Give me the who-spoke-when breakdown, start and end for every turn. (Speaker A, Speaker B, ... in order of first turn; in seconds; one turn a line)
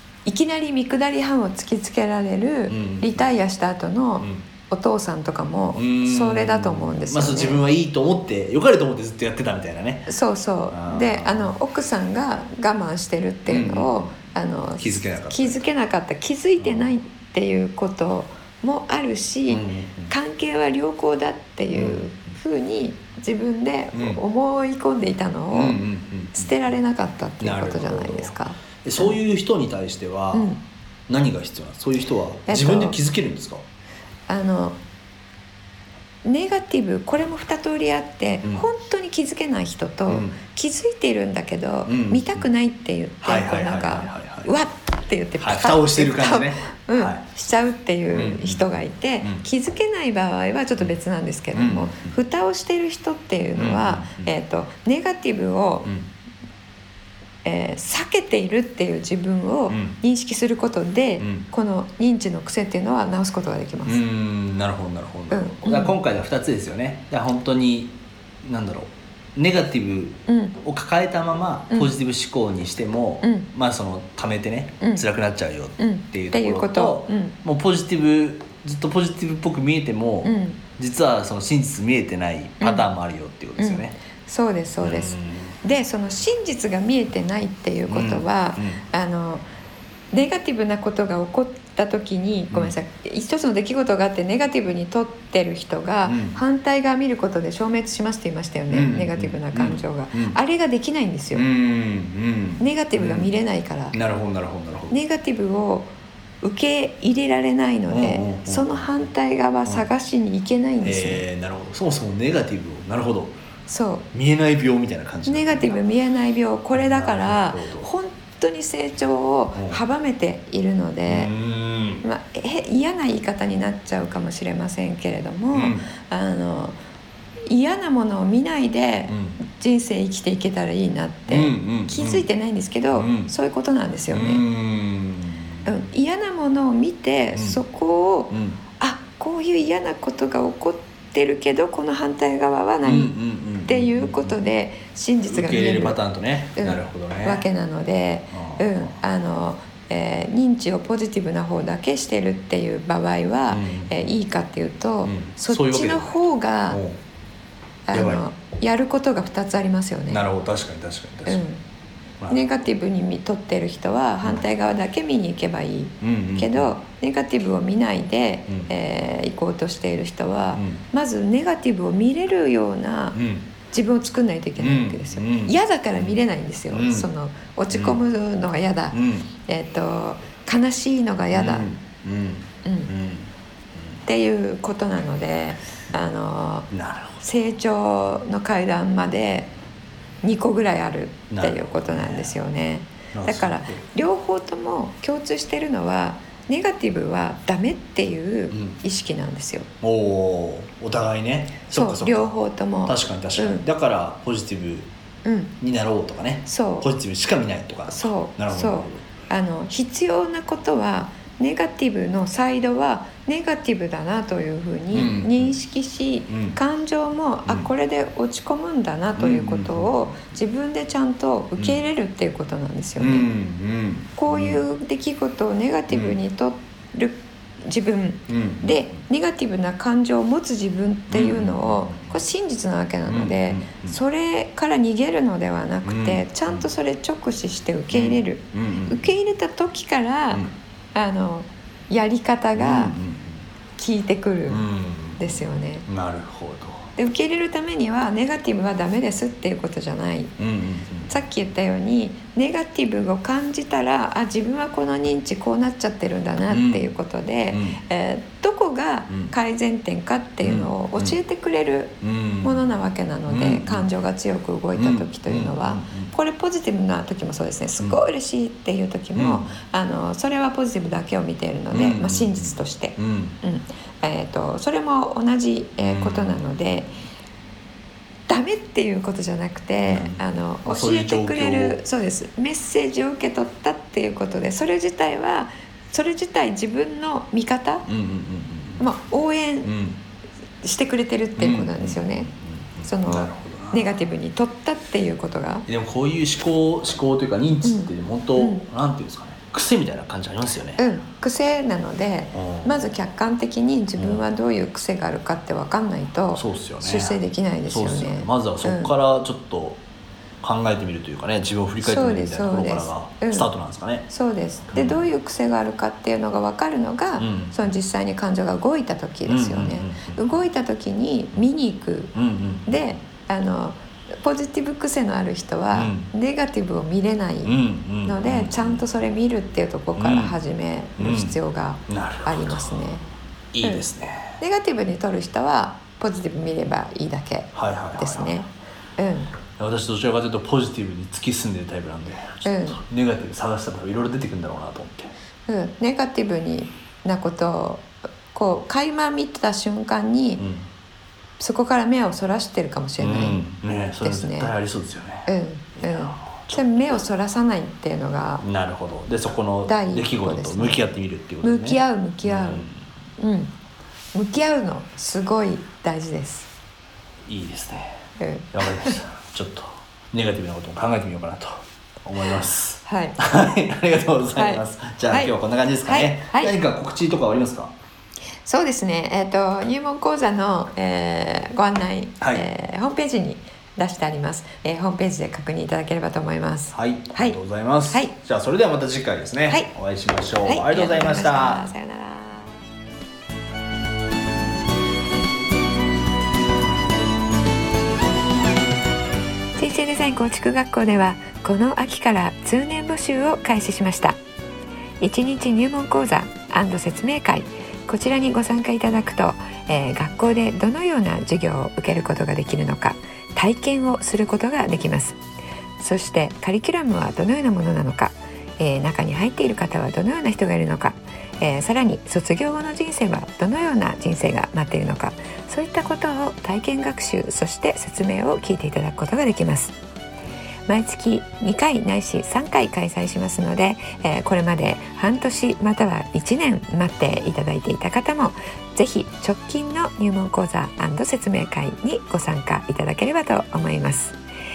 Speaker A: 0.2-7.6
Speaker B: 2.7-3.3
Speaker B: 4.2-4.5
Speaker B: 5.7-10.1
Speaker A: 10.1-25.8
Speaker B: 10.7-11.5
Speaker B: 13.4-14.1
Speaker B: 14.8-15.7
Speaker B: 16.6-16.9
Speaker B: 19.5-20.1
Speaker B: 21.7-22.0
Speaker B: 23.9-24.2
Speaker B: 25.5-26.5
Speaker A: 26.3-29.2
Speaker B: 27.4-30.5
Speaker A: 30.3-30.6
Speaker B: 31.1-33.6
Speaker A: 32.5-33.0
Speaker A: 34.3-34.8
Speaker A: 36.2-55.9
Speaker B: 40.1-40.4
Speaker B: 41.9-42.5
Speaker B: 43.2-44.5
Speaker B: 45.4-47.2
Speaker B: 48.1-48.7
Speaker B: 51.5-52.2
Speaker B: 53.5-54.3
Speaker A: 57.4-64.0
Speaker B: 59.7-60.0
Speaker B: 61.2-61.5
Speaker B: 63.9-84.0
Speaker A: 65.3-65.9
Speaker A: 70.3-70.6
Speaker A: 71.7-72.0
Speaker A: 73.2-73.5
Speaker A: 74.8-75.1
Speaker A: 75.8-77.3
Speaker A: 80.2-80.6
Speaker A: 82.6-82.9
Speaker A: 83.6-89.4
Speaker B: 84.8-85.6
Speaker B: 87.9-88.8
Speaker A: 90.1-101.5
Speaker B: 96.0-96.4
Speaker B: 98.7-100.4
Speaker B: 101.3-103.3
Speaker A: 102.6-104.0
Speaker B: 103.9-105.0
Speaker A: 104.9-111.2
Speaker B: 107.9-108.9
Speaker B: 110.8-113.4
Speaker A: 113.7-114.1
Speaker B: 114.1-115.8
Speaker A: 115.2-121.3
Speaker B: 116.7-117.9
Speaker B: 121.1-122.0
Speaker A: 122.0-126.8
Speaker B: 125.5-125.8
Speaker A: 127.5-134.4
Speaker B: 129.1-129.4
Speaker B: 131.3-132.3
Speaker B: 132.9-133.3
Speaker B: 134.1-135.7
Speaker A: 135.6-146.0
Speaker B: 137.3-137.6
Speaker B: 138.3-138.6
Speaker B: 142.8-144.4
Speaker B: 145.2-147.4
Speaker A: 146.5-156.8
Speaker B: 148.3-148.9
Speaker B: 153.5-154.1
Speaker B: 155.0-157.0
Speaker A: 157.9-160.3
Speaker B: 157.9-158.2
Speaker B: 160.1-161.4
Speaker A: 161.3-161.6
Speaker A: 162.3-173.2
Speaker B: 166.0-166.7
Speaker B: 170.5-170.8
Speaker B: 173.1-173.5
Speaker A: 173.7-181.7
Speaker B: 174.6-177.1
Speaker B: 177.7-178.0
Speaker B: 178.9-179.3
Speaker B: 181.3-183.3
Speaker A: 182.6-182.9
Speaker A: 184.0-186.7
Speaker B: 186.7-187.2
Speaker A: 187.2-189.5
Speaker A: 190.2-199.7
Speaker B: 191.3-192.4
Speaker B: 193.1-193.8
Speaker B: 198.5-198.8
Speaker B: 199.8-204.9
Speaker A: 201.7-203.6
Speaker A: 205.2-205.5
Speaker B: 205.6-209.1
Speaker A: 206.4-206.9
Speaker A: 207.9-223.3
Speaker B: 214.9-215.6
Speaker B: 216.3-216.6
Speaker B: 217.4-217.7
Speaker B: 219.2-220.1
Speaker B: 221.6-221.8
Speaker B: 223.0-224.6
Speaker A: 224.2-242.9
Speaker B: 225.9-226.2
Speaker B: 228.3-228.8
Speaker B: 231.1-232.2
Speaker B: 233.1-234.0
Speaker B: 235.8-236.7
Speaker B: 237.9-239.1
Speaker B: 242.6-243.4
Speaker A: 243.8-244.6
Speaker B: 244.5-246.9
Speaker A: 245.2-245.9
Speaker A: 246.9-250.3
Speaker B: 250.4-251.1
Speaker A: 251.1-276.9
Speaker B: 256.5-256.8
Speaker B: 257.5-257.8
Speaker B: 259.1-259.3
Speaker B: 260.4-261.1
Speaker B: 262.0-262.7
Speaker B: 263.3-263.9
Speaker B: 264.7-266.1
Speaker B: 269.1-269.5
Speaker B: 271.7-273.4
Speaker B: 275.8-276.4
Speaker A: 278.3-287.9
Speaker B: 279.9-281.8
Speaker B: 287.9-288.9
Speaker A: 288.8-289.7
Speaker B: 289.6-290.0
Speaker A: 290.6-292.3
Speaker B: 291.4-293.9
Speaker A: 292.8-295.6
Speaker B: 295.7-300.8
Speaker A: 297.6-298.6
Speaker A: 300.8-308.9
Speaker B: 302.3-302.9
Speaker B: 304.0-304.2
Speaker B: 306.3-309.8
Speaker B: 310.4-314.1
Speaker A: 311.8-313.5
Speaker A: 314.1-322.1
Speaker B: 314.7-315.1
Speaker B: 317.2-317.6
Speaker B: 319.2-320.4
Speaker B: 322.1-322.9
Speaker A: 322.6-333.0
Speaker B: 325.7-326.1
Speaker B: 327.4-328.8
Speaker B: 329.9-330.4
Speaker B: 331.0-331.4
Speaker B: 331.9-332.9
Speaker B: 333.5-334.4
Speaker A: 334.4-339.3
Speaker B: 337.5-338.4
Speaker B: 339.6-345.1
Speaker A: 342.4-342.8
Speaker A: 345.5-350.4
Speaker B: 350.4-350.6
Speaker A: 351.4-353.4
Speaker B: 353.0-355.3
Speaker A: 354.0-354.5
Speaker A: 355.3-358.4
Speaker B: 355.8-356.6
Speaker B: 358.4-362.8
Speaker A: 359.6-360.9
Speaker A: 361.4-362.7
Speaker A: 363.2-363.5
Speaker A: 364.1-366.5
Speaker B: 367.3-368.0
Speaker A: 368.2-369.0
Speaker B: 368.5-377.7
Speaker A: 372.8-373.2
Speaker A: 374.3-376.5
Speaker A: 378.4-387.4
Speaker B: 382.2-382.4
Speaker B: 386.7-391.7
Speaker A: 390.4-392.6
Speaker A: 399.6-404.2
Speaker A: 405.0-415.2
Speaker A: 415.8-429.8
Speaker A: 430.7-444.2